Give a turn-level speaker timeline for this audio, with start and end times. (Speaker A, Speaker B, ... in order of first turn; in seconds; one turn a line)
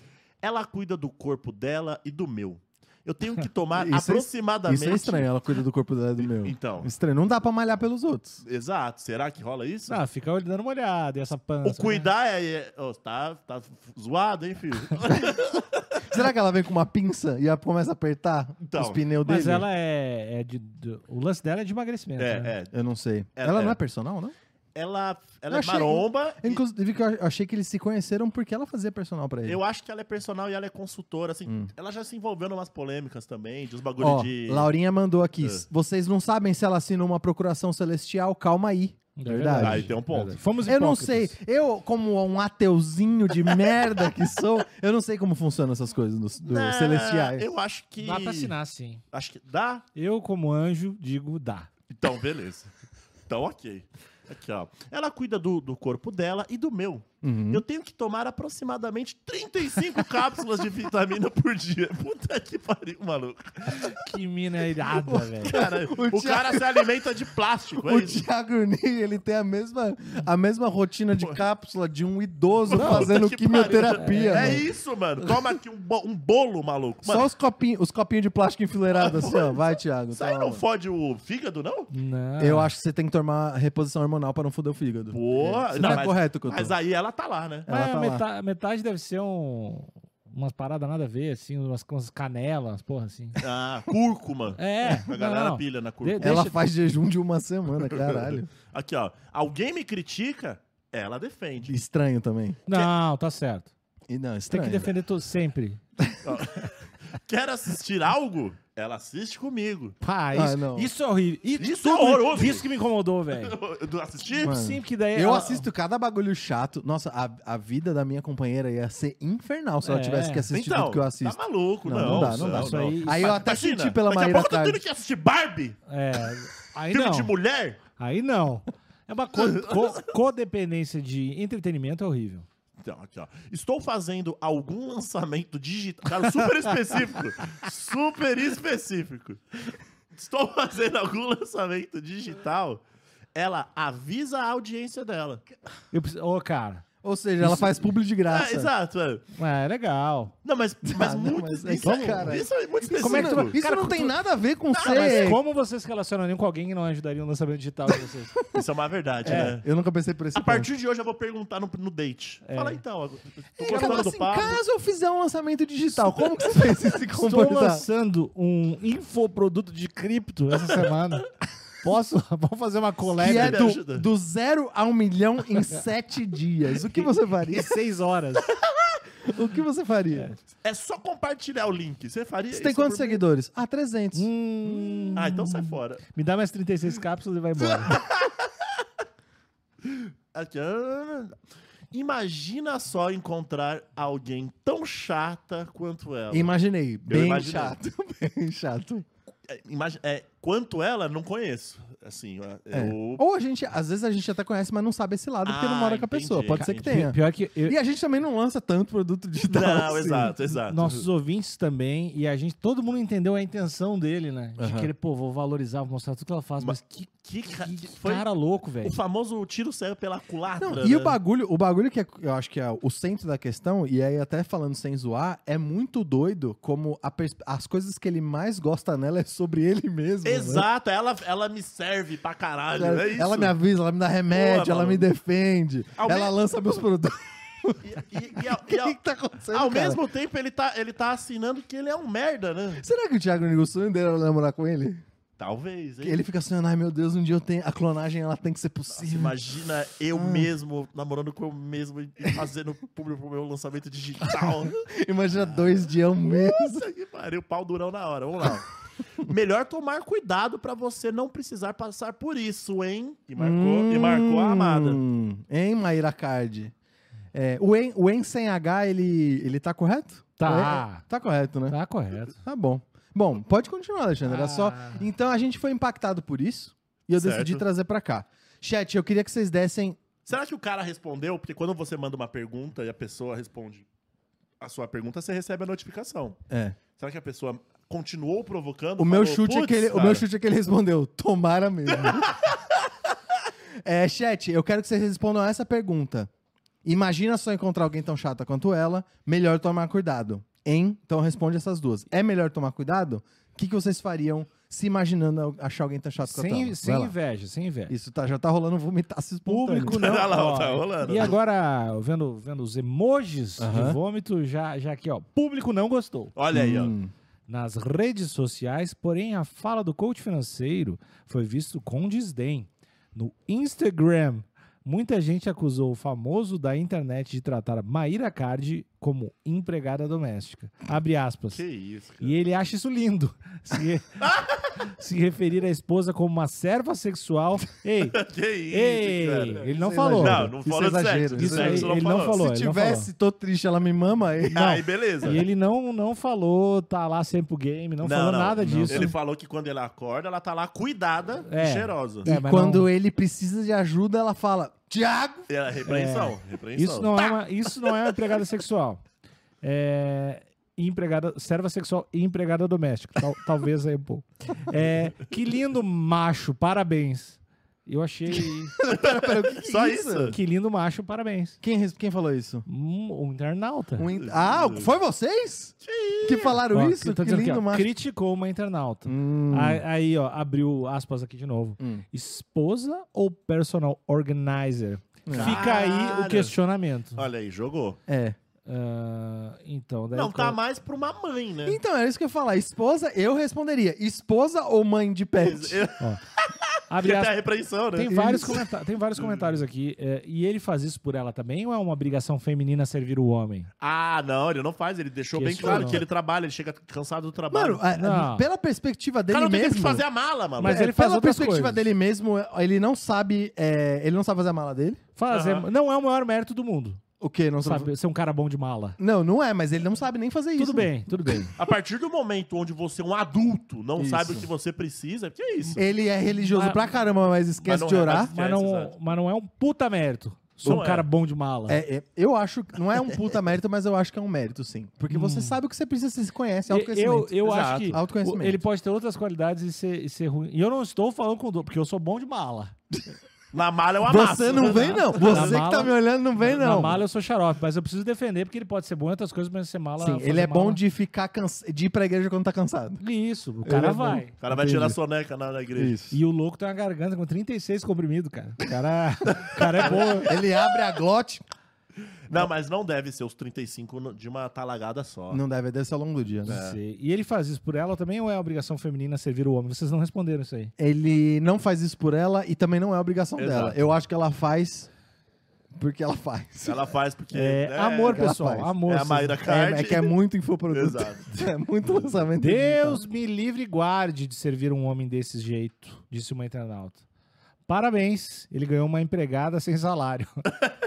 Speaker A: 0.4-5.3
Speaker B: 3.8-8.4
Speaker A: 6.2-6.9
Speaker A: 8.4-10.0
Speaker C: 9.9-12.1
Speaker A: 11.6-16.1
Speaker B: 16.1-19.7
Speaker A: 18.6-19.0
Speaker C: 19.2-22.6
Speaker A: 22.2-22.7
Speaker B: 22.7-24.4
Speaker A: 23.4-23.8
Speaker A: 24.8-26.6
Speaker B: 25.5-29.6
Speaker A: 29.4-34.7
Speaker B: 34.0-39.9
Speaker C: 39.2-41.3
Speaker A: 39.6-40.4
Speaker B: 40.6-47.5
Speaker A: 43.3-44.2
Speaker A: 46.5-48.5
Speaker C: 48.0-49.0
Speaker A: 49.1-49.9
Speaker C: 50.0-51.7
Speaker A: 51.9-52.7
Speaker A: 53.3-64.0
Speaker B: 57.2-57.6
Speaker C: 63.7-65.6
Speaker A: 65.1-68.2
Speaker B: 65.5-67.0
Speaker B: 67.8-74.7
Speaker A: 71.1-71.4
Speaker A: 72.7-77.3
Speaker C: 72.7-74.7
Speaker B: 77.0-80.6
Speaker A: 78.9-81.9
Speaker C: 81.9-82.7
Speaker B: 82.4-86.8
Speaker A: 85.1-87.7
Speaker C: 85.8-86.1
Speaker B: 87.7-88.2
Speaker C: 87.7-93.4
Speaker A: 93.4-96.4
Speaker C: 94.6-96.6
Speaker B: 96.2-98.5
Speaker A: 97.8-101.7
Speaker B: 101.7-102.6
Speaker C: 102.7-103.7
Speaker B: 104.1-104.9
Speaker C: 104.5-105.8
Speaker A: 106.2-106.7
Speaker A: 107.2-110.0
Speaker C: 110.0-113.5
Speaker B: 110.3-110.9
Speaker A: 111.6-112.7
Speaker A: 113.3-114.7
Speaker C: 114.3-115.7
Speaker B: 114.4-124.8
Speaker C: 119.8-120.5
Speaker A: 120.5-125.8
Speaker C: 121.9-123.5
Speaker C: 125.9-127.3
Speaker A: 126.9-127.8
Speaker C: 128.0-132.5
Speaker A: 129.3-130.1
Speaker A: 132.8-139.6
Speaker A: 140.2-142.8
Speaker A: 143.3-145.4
Speaker C: 145.9-146.8
Speaker B: 147.0-148.7
Speaker C: 147.4-147.9
Speaker A: 148.3-149.3
Speaker C: 149.4-150.3
Speaker A: 150.4-153.6
Speaker B: 150.8-155.4
Speaker C: 151.8-154.2
Speaker A: 154.8-155.3
Speaker C: 154.8-158.4
Speaker B: 158.3-158.6
Speaker A: 158.5-159.7
Speaker B: 159.2-160.7
Speaker C: 159.2-159.6
Speaker A: 160.3-164.6
Speaker C: 162.4-162.8
Speaker B: 163.6-167.9
Speaker C: 163.7-164.1
Speaker A: 166.0-166.3
Speaker C: 166.8-171.3
Speaker C: 171.8-173.6
Speaker B: 173.2-177.8
Speaker A: 173.2-174.1
Speaker C: 176.8-178.5
Speaker B: 179.2-180.3
Speaker A: 180.6-183.2
Speaker B: 182.5-185.2
Speaker C: 184.1-188.0
Speaker A: 185.2-186.0
Speaker A: 187.8-188.3
Speaker A: 189.9-191.3
Speaker A: 191.9-196.5
Speaker B: 196.3-199.1
Speaker A: 197.1-197.8
Speaker A: 199.5-203.2
Speaker B: 202.7-210.4
Speaker A: 205.4-207.1
Speaker C: 206.5-207.8
Speaker A: 209.4-211.1
Speaker C: 210.7-219.0
Speaker B: 214.6-214.9
Speaker A: 216.6-218.3
Speaker A: 218.8-221.2
Speaker B: 220.6-230.7
Speaker A: 230.2-233.6
Speaker B: 232.8-240.0
Speaker A: 234.3-235.1
Speaker A: 236.0-236.4
Speaker A: 237.8-242.8
Speaker B: 242.8-245.0
Speaker A: 245.4-246.3
Speaker B: 246.0-249.4
Speaker A: 248.9-254.8
Speaker B: 250.1-250.5
Speaker B: 254.9-256.9
Speaker A: 255.3-258.7
Speaker A: 259.2-265.0
Speaker B: 263.4-266.7
Speaker B: 267.3-271.8
Speaker C: 270.4-271.1
Speaker C: 271.7-272.4
Speaker B: 272.4-280.0
Speaker C: 274.2-275.1
Speaker A: 277.2-277.6
Speaker A: 280.3-283.9
Speaker A: 284.6-286.4
Speaker B: 286.5-286.8
Speaker A: 287.0-290.3
Speaker B: 289.0-292.3
Speaker A: 291.9-292.3
Speaker B: 293.8-296.3
Speaker B: 296.8-307.1
Speaker C: 306.2-307.9
Speaker B: 307.9-310.2
Speaker C: 309.5-316.4
Speaker A: 309.9-311.4
Speaker B: 313.6-314.0
Speaker A: 316.3-316.9
Speaker B: 316.5-317.1
Speaker C: 317.5-331.6
Speaker A: 331.5-332.4
Speaker C: 332.2-338.2
Speaker A: 338.1-342.4
Speaker C: 338.7-340.6
Speaker B: 339.8-344.7
Speaker C: 341.4-343.1
Speaker A: 344.6-345.4
Speaker C: 344.6-349.1
Speaker A: 348.0-352.3
Speaker B: 348.6-349.1
Speaker C: 351.5-352.9
Speaker B: 352.2-355.5
Speaker A: 355.5-357.2
Speaker C: 355.9-359.0
Speaker C: 359.6-368.8
Speaker B: 368.8-370.4
Speaker A: 368.8-370.4
Speaker C: 370.3-371.6
Speaker B: 371.6-372.7
Speaker C: 372.7-374.1
Speaker B: 374.0-377.9
Speaker A: 374.1-374.9
Speaker A: 375.8-376.6
Speaker C: 376.7-387.2
Speaker B: 379.1-379.8
Speaker B: 385.3-385.6
Speaker A: 385.3-386.6
Speaker A: 387.1-388.0
Speaker B: 388.1-388.4
Speaker C: 388.7-390.6
Speaker A: 390.1-391.8
Speaker B: 391.6-395.8
Speaker A: 395.4-398.6
Speaker C: 396.9-397.4
Speaker C: 397.9-403.7
Speaker B: 398.1-398.6
Speaker A: 399.2-399.5
Speaker A: 403.8-407.9
Speaker C: 405.3-406.0
Speaker B: 405.6-406.0
Speaker B: 407.5-410.1
Speaker C: 407.9-408.5
Speaker A: 409.3-410.8
Speaker C: 410.6-411.8
Speaker B: 410.6-415.0
Speaker C: 415.2-417.0
Speaker A: 415.3-415.7
Speaker B: 417.2-417.9
Speaker C: 417.6-419.0
Speaker B: 419.0-421.4
Speaker C: 420.6-421.6
Speaker A: 421.6-425.9
Speaker B: 424.0-424.5
Speaker B: 425.8-428.3
Speaker C: 426.3-426.9
Speaker A: 427.6-428.9
Speaker C: 428.3-431.8
Speaker A: 430.6-431.1
Speaker B: 431.7-438.6
Speaker C: 435.1-435.6
Speaker C: 436.7-442.7
Speaker A: 437.4-438.0
Speaker A: 443.5-445.8
Speaker B: 444.0-447.0
Speaker C: 444.7-450.8
Speaker B: 450.0-453.0
Speaker C: 453.0-454.4
Speaker B: 453.6-455.0
Speaker A: 454.4-456.0
Speaker B: 455.8-456.2
Speaker C: 456.1-460.4
Speaker A: 459.8-460.1
Speaker B: 459.9-461.4
Speaker A: 462.3-465.4
Speaker B: 465.3-466.6
Speaker C: 466.5-470.7
Speaker A: 466.5-466.8
Speaker B: 470.8-474.9
Speaker A: 473.4-473.9
Speaker B: 475.8-476.8
Speaker A: 476.6-480.2
Speaker C: 477.3-479.4
Speaker B: 478.1-478.7
Speaker B: 479.4-483.0
Speaker A: 480.7-481.3
Speaker C: 482.4-487.0
Speaker C: 487.7-490.5